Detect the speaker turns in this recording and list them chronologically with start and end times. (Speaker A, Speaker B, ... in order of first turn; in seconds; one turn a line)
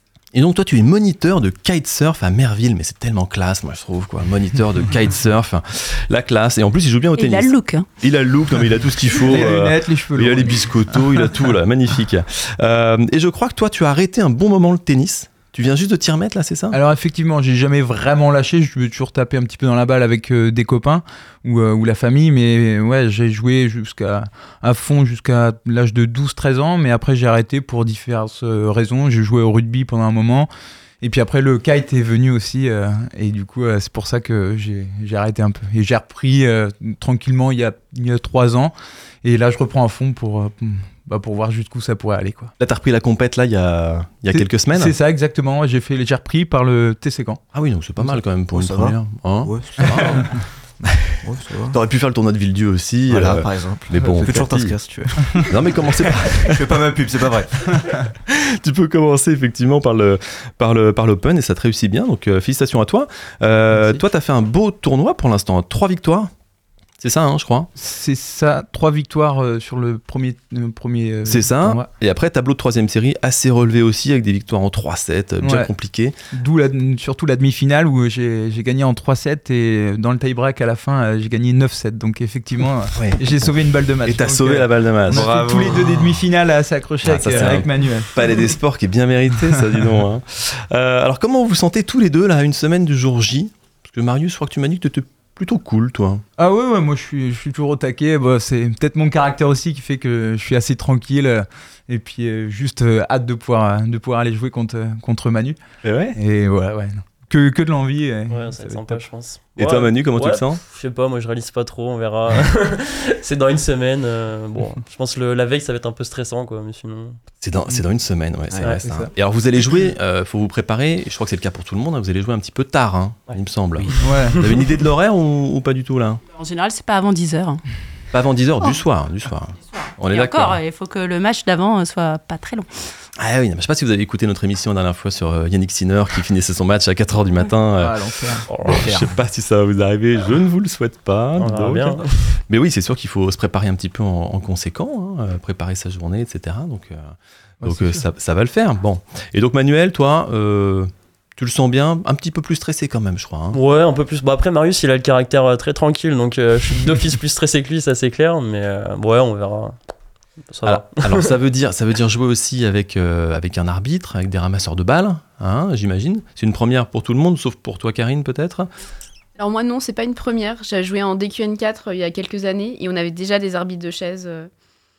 Speaker A: 0.3-16.8
Speaker B: 7.2-7.9
Speaker C: 9.2-11.3
Speaker C: 16.7-30.5
Speaker C: 31.0-42.5
Speaker A: 42.6-44.9
Speaker C: 44.3-47.4
Speaker A: 47.5-50.4
Speaker D: 48.5-50.3
Speaker D: 51.1-51.8
Speaker A: 51.7-54.8
Speaker D: 53.1-55.5
Speaker A: 55.3-56.8
Speaker D: 56.1-57.9
Speaker A: 58.3-66.3
Speaker C: 63.7-64.0
Speaker A: 67.0-67.7
Speaker C: 67.8-71.9
Speaker A: 71.2-76.2
Speaker C: 75.4-75.7
Speaker C: 76.3-88.4
Speaker A: 82.9-83.4
Speaker A: 84.0-86.2
Speaker A: 87.0-96.2
Speaker C: 96.4-105.6
Speaker A: 105.8-106.2
Speaker C: 106.2-109.0
Speaker E: 108.3-117.2
Speaker A: 109.6-110.6
Speaker A: 117.4-126.2
Speaker D: 118.5-118.8
Speaker C: 118.8-119.1
Speaker C: 124.0-124.4
Speaker B: 126.3-127.6
Speaker A: 128.1-130.6
Speaker B: 129.7-132.7
Speaker A: 133.2-153.6
Speaker C: 137.8-138.8
Speaker E: 138.5-138.8
Speaker E: 141.3-142.1
Speaker C: 147.6-148.0
Speaker E: 153.5-159.8
Speaker E: 160.4-161.3
Speaker A: 160.6-168.7
Speaker F: 169.4-174.5